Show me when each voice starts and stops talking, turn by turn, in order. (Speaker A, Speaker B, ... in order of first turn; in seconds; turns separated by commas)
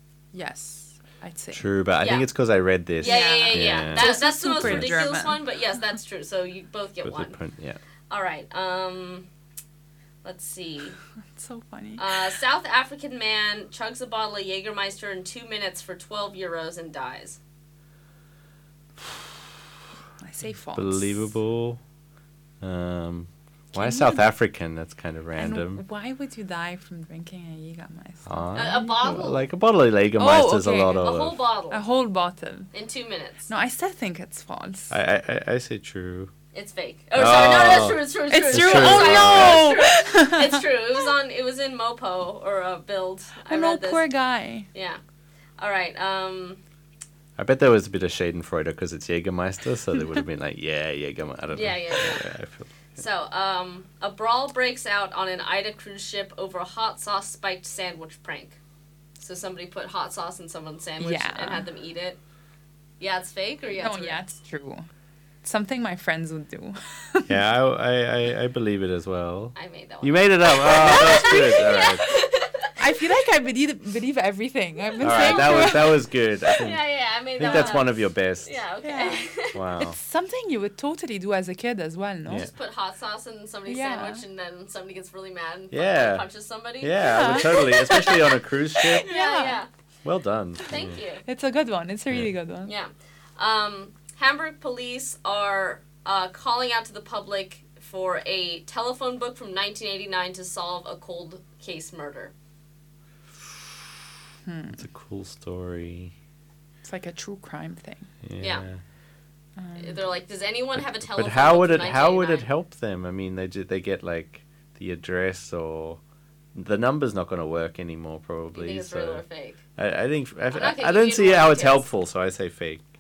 Speaker A: 0.3-1.7, Speaker B: 1.5-5.0, Speaker C: 2.0-2.3, Speaker C: 3.0-7.4, Speaker A: 3.0-5.4, Speaker B: 7.0-7.8, Speaker C: 8.1-9.3, Speaker C: 10.2-11.0, Speaker A: 11.3-12.1, Speaker C: 12.0-17.4, Speaker A: 20.2-21.3, Speaker B: 20.8-21.8, Speaker B: 22.6-25.8, Speaker A: 23.7-24.3, Speaker A: 25.4-29.3, Speaker B: 28.3-31.4, Speaker C: 28.6-29.4, Speaker A: 30.2-31.2, Speaker C: 31.0-31.8, Speaker A: 31.7-32.7, Speaker C: 32.7-33.5, Speaker A: 33.5-35.0, Speaker B: 34.9-36.3, Speaker C: 36.5-44.1, Speaker B: 37.1-39.8, Speaker A: 38.3-40.6, Speaker A: 43.5-44.7, Speaker C: 44.7-45.0, Speaker C: 45.6-46.6, Speaker B: 47.4-52.8, Speaker C: 51.5-52.3, Speaker C: 53.0-58.6, Speaker C: 59.2-62.2, Speaker A: 61.0-61.7, Speaker C: 63.0-64.2, Speaker A: 63.7-64.9, Speaker A: 65.4-67.4, Speaker B: 67.3-72.1, Speaker C: 69.6-72.7, Speaker A: 70.8-71.8, Speaker A: 72.8-76.0, Speaker C: 75.0-76.0, Speaker B: 75.0-76.8, Speaker C: 76.6-79.6, Speaker B: 77.4-78.5, Speaker A: 77.4-77.8, Speaker A: 78.8-82.5, Speaker B: 79.5-80.0, Speaker B: 82.3-82.5, Speaker C: 82.5-88.2, Speaker A: 83.7-84.2, Speaker B: 85.7-86.3, Speaker B: 86.8-89.1, Speaker A: 87.0-88.2, Speaker C: 88.9-89.7, Speaker A: 89.0-89.6, Speaker B: 90.0-91.0, Speaker C: 90.7-91.2, Speaker A: 91.2-92.7, Speaker C: 92.7-102.3, Speaker A: 104.5-104.8, Speaker B: 104.8-106.1, Speaker A: 106.8-108.1, Speaker B: 108.2-108.8, Speaker C: 108.4-108.7, Speaker A: 109.6-110.0, Speaker C: 109.8-112.5, Speaker B: 111.1-116.0, Speaker B: 116.5-119.2, Speaker C: 118.5-119.6, Speaker B: 119.8-122.8, Speaker C: 120.5-121.8